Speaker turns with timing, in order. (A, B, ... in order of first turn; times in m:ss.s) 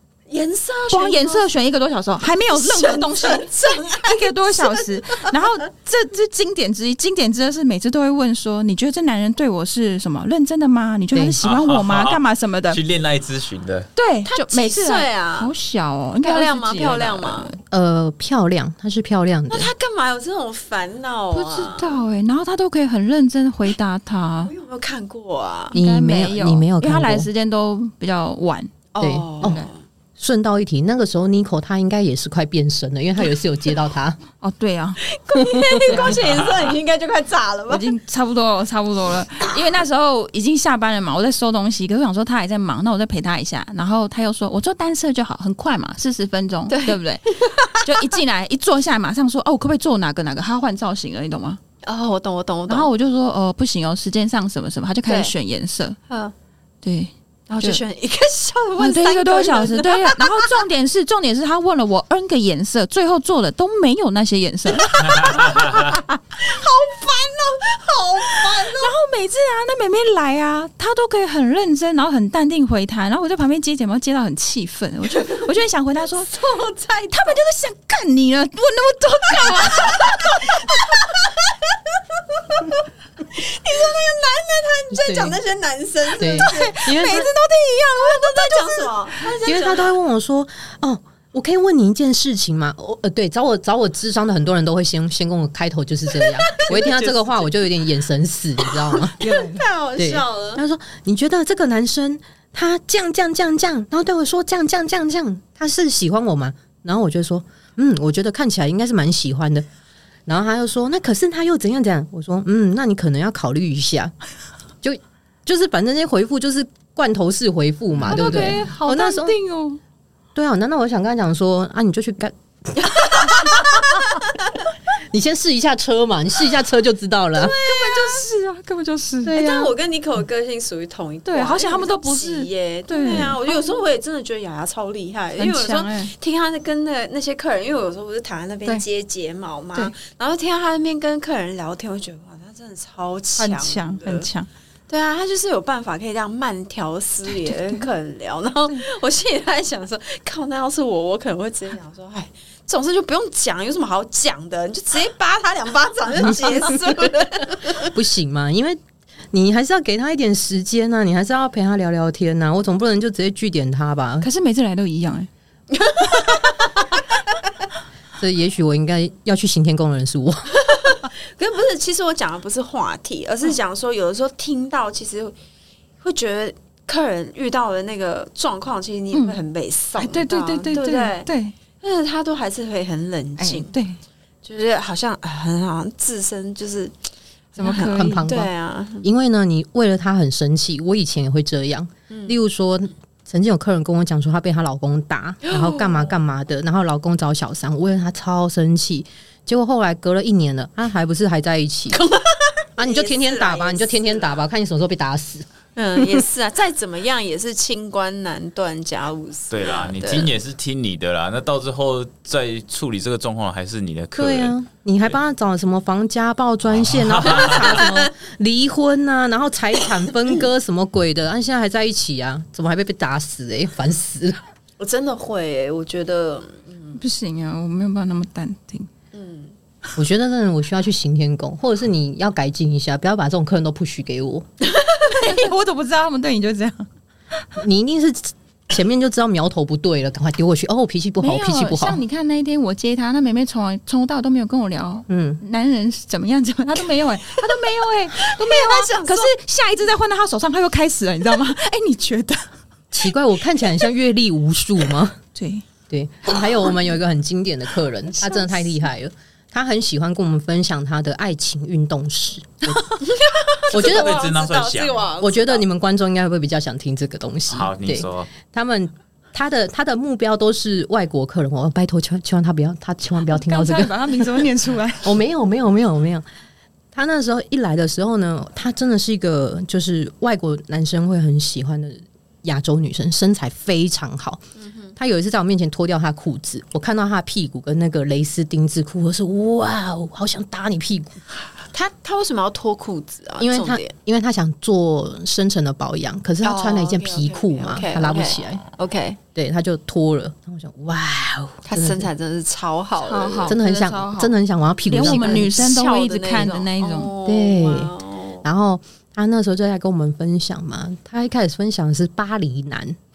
0:00.3-0:01.5 A
0:00.9-0:03.5 B
0:02.5-0:04.9 A
0:04.0-0:12.8 B
0:11.1-0:11.4 C
0:11.4-0:13.9 D
0:14.0-0:17.6 B
0:14.3-0:15.5 A
0:16.2-0:17.5 A
0:17.7-0:19.7 C
0:19.5-0:22.0 A
0:21.3-0:24.5 B
0:24.5-0:25.8 A
0:25.7-0:27.3 C
0:25.7-0:28.8 B
0:28.9-0:29.8 A
0:29.0-0:29.6 C
0:29.4-0:29.7 B
0:30.2-0:34.2 C
0:34.4-0:35.0 B
0:35.1-0:37.9 A
0:35.4-0:36.1 C
0:35.9-0:36.2 B
0:36.3-0:36.8 D
0:37.7-0:51.6 B
0:46.7-0:48.0 A
0:51.8-0:52.9 A
0:52.7-0:56.0 B
0:55.1-0:55.3 A
0:56.1-0:56.3 A
0:56.8-0:57.8 B
0:57.5-1:00.6 A
0:58.8-1:05.8 B
1:05.1-1:08.9 A
1:05.2-1:05.5 D
1:08.6-1:16.3 B
1:16.2-1:17.2 A
1:17.1-1:20.8 B
1:19.5-1:27.1 A
1:24.9-1:25.4 C
1:26.2-1:27.3 C
1:26.2-1:29.3 B
1:28.0-1:29.9 A
1:29.4-1:39.2 C
1:36.5-1:36.9 A
1:36.6-1:37.5 B
1:39.0-1:40.6 A
1:39.2-1:39.7 B
1:40.0-1:49.7 C
1:50.3-1:54.1 C
1:54.8-1:59.4 C
1:58.0-1:58.4 D
1:58.1-1:59.8 B
2:00.4-2:03.8 C
2:02.9-2:03.6 A
2:05.1-2:07.6 C
2:07.4-2:08.2 A
2:07.6-2:09.4 B
2:09.3-2:09.7 C
2:09.3-2:24.3 A
2:11.2-2:13.7 B
2:15.4-2:16.1 B
2:23.4-2:24.5 B
2:24.9-2:37.9 A
2:27.4-2:27.8 B
2:37.8-2:38.8 C
2:39.3-2:44.3 C
2:44.2-2:45.3 B
2:45.7-2:47.0 A
2:48.2-2:50.5 C
2:50.6-2:55.4 A
2:56.0-3:03.8 A
2:59.1-2:59.4 B
3:00.0-3:01.6 B
3:03.4-3:04.0 B
3:04.4-3:06.9 A
3:07.6-3:09.1 A
3:07.6-3:08.3 B
3:07.6-3:22.1 C
3:12.1-3:12.4 A
3:15.5-3:16.1 A
3:21.9-3:24.3 A
3:22.8-3:26.2 C
3:25.8-3:30.3 A
3:29.5-3:34.6 D
3:34.1-3:44.4 C
3:36.7-3:37.8 D
3:37.4-3:38.1 A
3:44.8-3:47.0 A
3:47.0-3:48.9 B
3:49.1-3:49.5 A
3:50.0-3:54.4 C
3:54.8-3:55.3 A
3:55.1-3:56.9 B
3:57.6-4:02.0 C
4:01.2-4:12.5 B
4:05.1-4:05.4 C
4:08.3-4:09.3 A
4:12.9-4:15.2 C
4:15.3-4:15.6 B
4:15.9-4:22.8 C
4:23.0-4:25.6 A
4:23.7-4:25.1 D
4:23.7-4:24.2 C
4:25.2-4:33.9 C
4:27.5-4:28.3 D
4:33.3-4:35.1 B
4:35.0-4:36.2 C
4:36.9-4:44.4 C
4:44.6-4:44.9 A
4:45.0-4:51.2 C
4:51.7-4:53.9 A
4:53.4-4:58.6 C
4:56.4-4:59.2 A
4:59.3-5:02.1 C
5:01.7-5:03.6 A
5:03.0-5:04.3 B
5:03.4-5:05.6 C
5:04.9-5:07.1 B
5:04.9-5:08.4 A
5:07.2-5:13.0 C